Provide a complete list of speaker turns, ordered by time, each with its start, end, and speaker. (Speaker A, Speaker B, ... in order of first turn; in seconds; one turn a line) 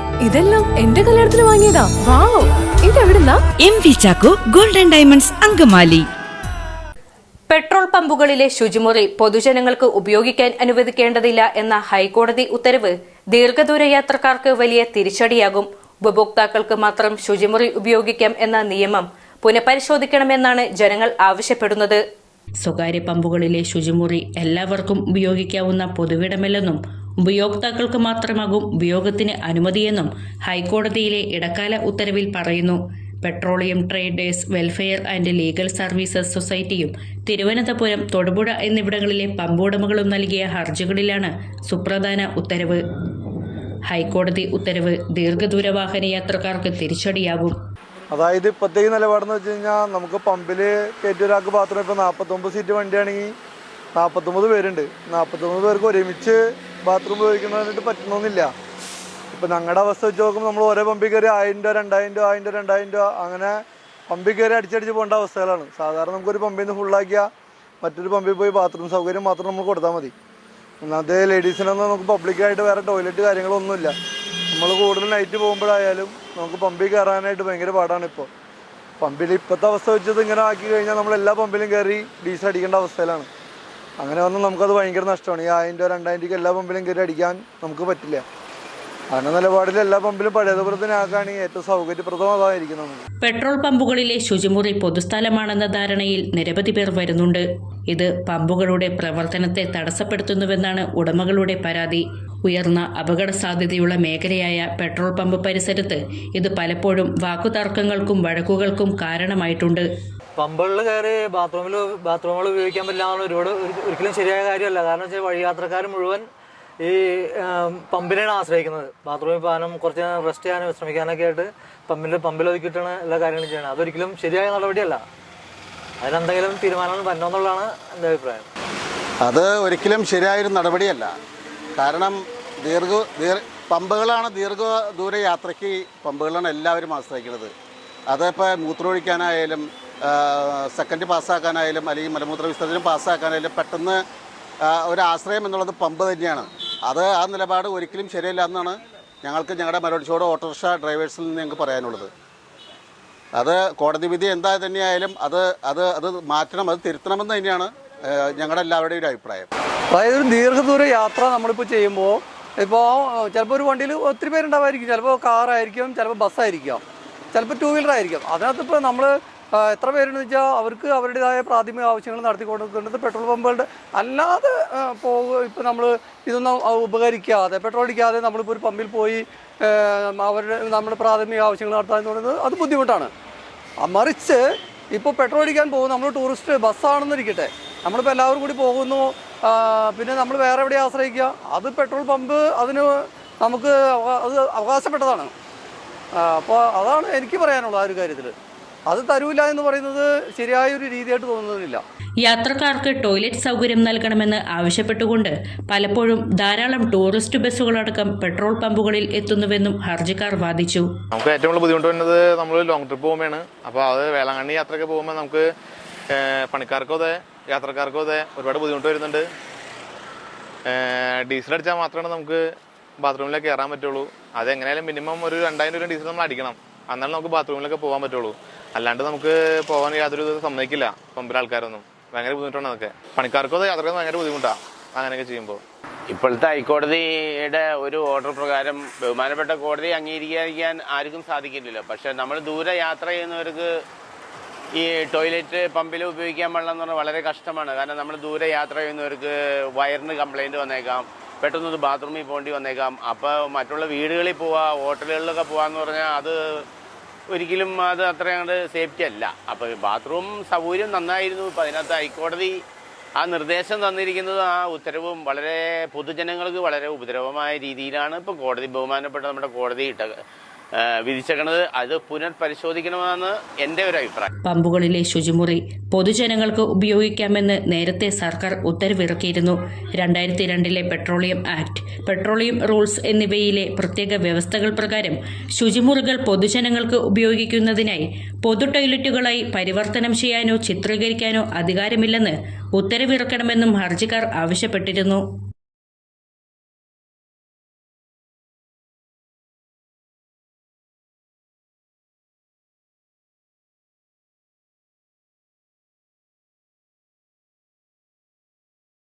Speaker A: 0.2-3.4
Speaker B: 3.6-6.0
Speaker C: 7.5-22.0
Speaker C: 22.6-42.8
Speaker C: 43.9-47.6
Speaker D: 48.1-53.3
Speaker D: 54.0-58.5
Speaker D: 59.3-63.6
Speaker D: 64.1-67.3
Speaker D: 67.8-70.1
Speaker D: 70.8-73.9
Speaker D: 74.5-78.3
Speaker D: 79.0-83.3
Speaker D: 84.0-88.2
Speaker D: 89.1-93.0
Speaker C: 93.2-109.9
Speaker E: 110.4-116.3
Speaker E: 116.8-125.0
Speaker E: 126.0-128.5
Speaker F: 129.2-131.1
Speaker F: 131.8-137.5
Speaker F: 138.1-144.0
Speaker F: 144.7-152.1
Speaker F: 153.4-159.5
Speaker G: 159.9-166.8
Speaker G: 167.3-183.1
Speaker G: 183.8-184.4
Speaker G: 184.9-195.3
Speaker G: 196.2-198.3
Speaker G: 198.9-201.8
Speaker C: 202.2-210.9
Speaker H: 211.1-215.4
Speaker H: 216.1-219.2
Speaker H: 220.7-222.4
Speaker H: 223.0-235.6
Speaker I: 236.1-243.7
Speaker I: 244.8-256.4
Speaker I: 257.3-262.6
Speaker I: 263.2-270.1
Speaker I: 271.0-274.3
Speaker C: 274.4-295.2